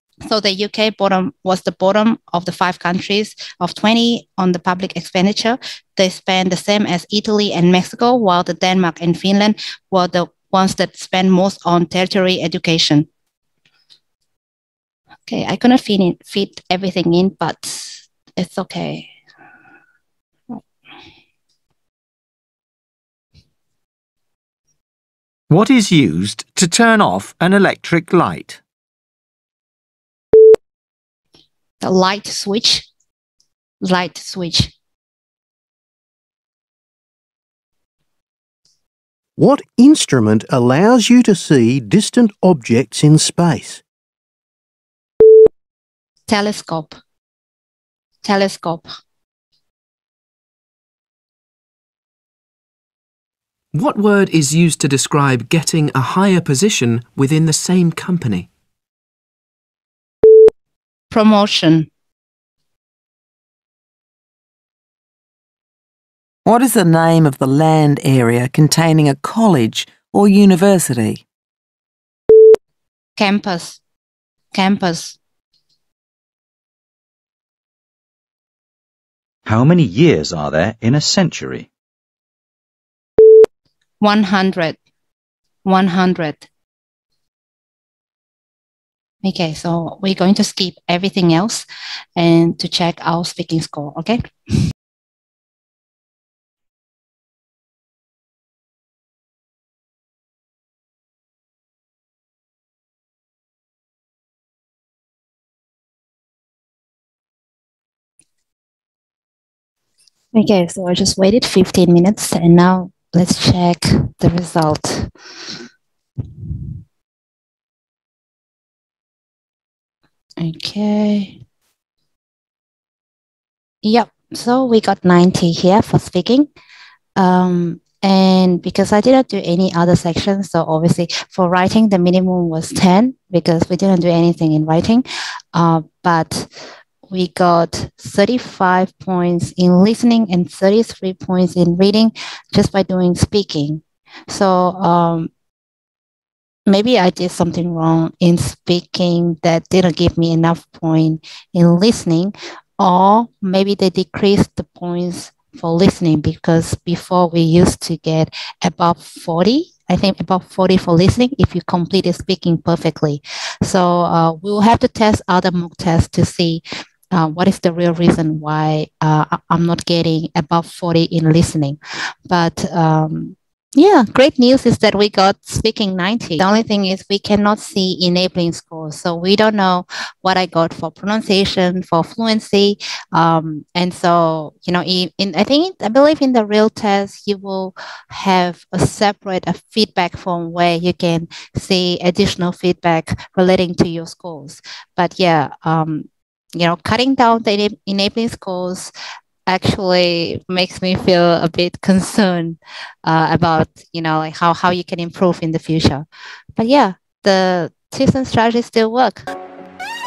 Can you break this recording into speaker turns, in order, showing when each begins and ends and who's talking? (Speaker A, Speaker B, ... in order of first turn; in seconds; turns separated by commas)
Speaker A: 0.3-13.1, Speaker A: 15.3-19.1, Speaker B: 25.5-28.6, Speaker A: 31.8-32.9, Speaker A: 33.8-34.7, Speaker C: 39.4-43.8, Speaker A: 46.3-47.0, Speaker A: 48.2-48.9, Speaker D: 53.7-58.5, Speaker A: 61.1-61.9, Speaker E: 66.5-71.2, Speaker A: 73.2-73.8, Speaker A: 74.5-75.2, Speaker F: 79.5-81.7, Speaker A: 84.0-84.8, Speaker A: 85.7-86.5, Speaker A: 89.2-91.7, Speaker A: 92.2-94.3, Speaker A: 110.3-115.1, Speaker A: 120.4-121.4, Speaker A: 123.8-126.5, Speaker A: 127.2-136.5, Speaker A: 137.1-145.3, Speaker A: 146.7-198.9, Speaker A: 199.5-209.2